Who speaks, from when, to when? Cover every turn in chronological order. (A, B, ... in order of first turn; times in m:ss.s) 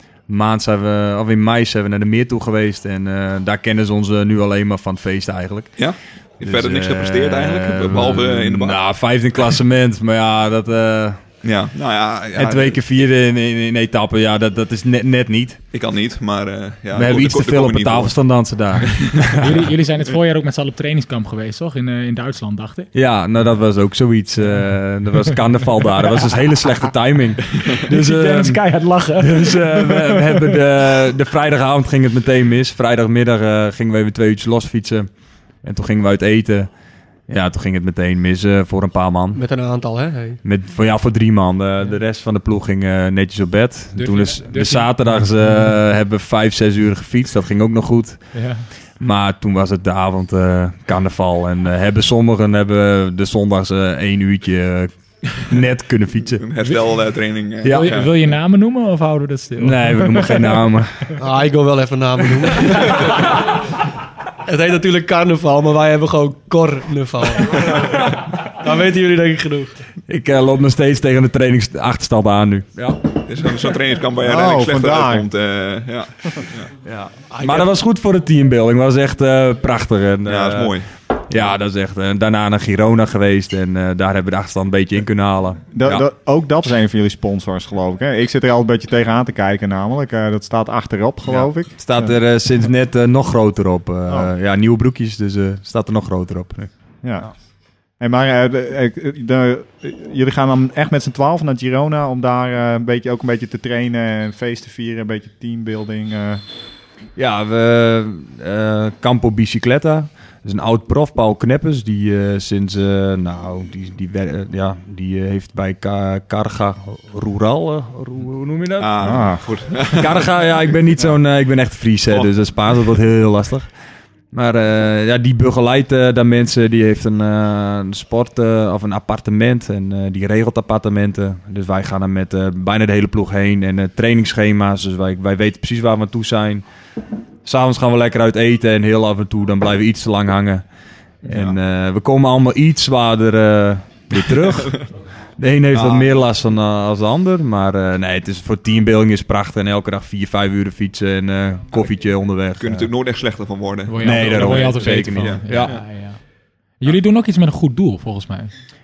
0:00.3-0:11.2 A
0:05.8-0:08.8 B
0:11.4-0:13.0 B
0:12.4-0:15.6 A
0:15.7-0:18.2 B
0:16.9-0:19.7 A
0:18.8-0:19.4 B
0:19.4-0:22.9 C
0:22.9-0:35.1 A
0:27.9-0:30.6 C
0:35.6-0:36.7 A
0:37.3-0:39.4 A
0:39.3-0:40.4 D
0:40.4-0:56.4 A
0:44.0-0:45.7 C
0:48.3-0:48.7 C
0:56.4-0:58.2 B
0:56.6-0:56.9 C
0:57.6-1:01.2 C
0:57.6-0:57.9 A
0:59.6-1:01.1 A
1:01.2-1:03.5 D
1:04.4-1:09.7 D
1:10.1-1:13.1 A
1:13.2-1:16.7 B
1:14.2-1:15.3 E
1:16.8-1:20.7 A
1:17.3-1:17.7 D
1:20.2-1:20.9 B
1:21.3-1:26.0 A
1:25.7-1:32.2 E
1:31.2-1:37.3 A
1:37.0-1:37.3 E
1:38.0-1:46.4 E
1:47.2-1:59.3 A
1:58.8-2:00.3 B
1:59.0-1:59.5 E
1:59.9-2:03.7 A
2:04.3-2:16.6 A
2:17.4-2:20.6 A
2:21.2-2:21.6 B
2:21.2-2:24.8 A
2:24.4-2:24.8 B
2:25.4-2:32.9 A
2:25.7-2:26.1 B
2:32.6-2:35.8 B
2:33.9-2:36.2 C
2:34.0-2:35.8 A
2:36.8-2:38.6 C